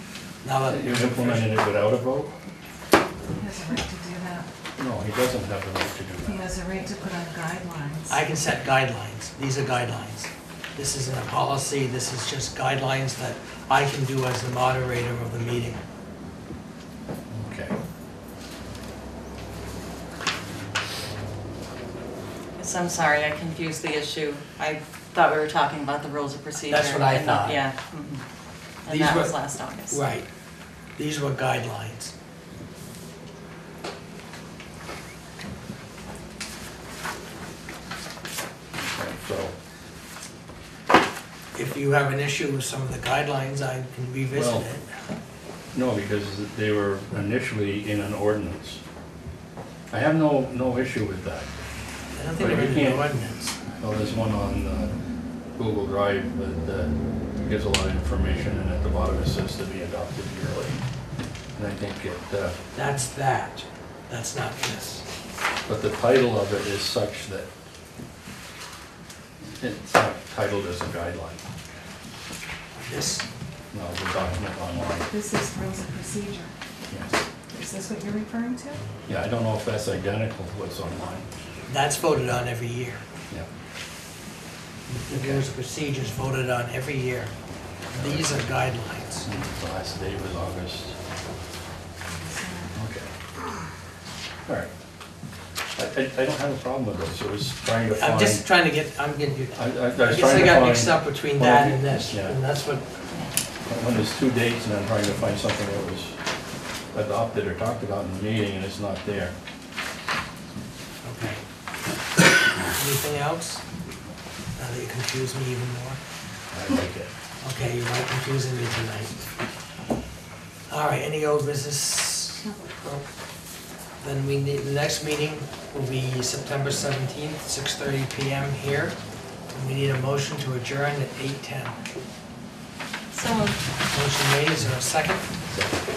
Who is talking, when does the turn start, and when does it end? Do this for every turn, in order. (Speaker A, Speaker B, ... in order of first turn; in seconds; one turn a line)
Speaker A: 0.4-1.5
Speaker B: 0.7-2.3
Speaker C: 3.3-4.5
Speaker B: 4.8-6.4
Speaker C: 6.2-8.1
Speaker A: 8.1-15.8
Speaker B: 17.3-17.7
Speaker D: 22.6-28.2
Speaker A: 26.7-27.6
Speaker D: 28.8-30.0
Speaker A: 28.9-29.3
Speaker A: 29.9-30.3
Speaker A: 30.9-32.1
Speaker B: 38.7-39.5
Speaker A: 41.5-44.9
Speaker B: 44.3-44.6
Speaker B: 45.7-48.8
Speaker B: 49.9-51.5
Speaker A: 52.1-53.6
Speaker B: 52.4-53.1
Speaker B: 53.8-54.9
Speaker B: 55.6-60.8
Speaker B: 61.5-62.5
Speaker A: 62.7-65.0
Speaker B: 65.7-67.5
Speaker B: 69.6-71.4
Speaker A: 72.8-73.2
Speaker B: 73.7-75.1
Speaker C: 75.0-76.5
Speaker B: 76.9-77.2
Speaker C: 77.5-78.8
Speaker B: 79.1-81.3
Speaker A: 81.7-83.0
Speaker B: 84.9-85.4
Speaker A: 85.0-87.3
Speaker B: 87.9-88.4
Speaker A: 88.0-89.3
Speaker B: 89.2-91.0
Speaker C: 92.1-92.7
Speaker B: 92.7-93.1
Speaker B: 95.8-98.4
Speaker A: 97.9-102.9
Speaker B: 99.5-102.3
Speaker B: 103.7-106.2
Speaker B: 106.9-109.3
Speaker A: 111.0-111.4
Speaker A: 112.7-113.6
Speaker A: 114.6-116.0
Speaker B: 116.5-117.1
Speaker A: 117.4-119.1
Speaker A: 120.7-123.0
Speaker A: 124.0-128.9
Speaker A: 129.5-131.8
Speaker C: 133.2-133.6
Speaker A: 133.9-135.3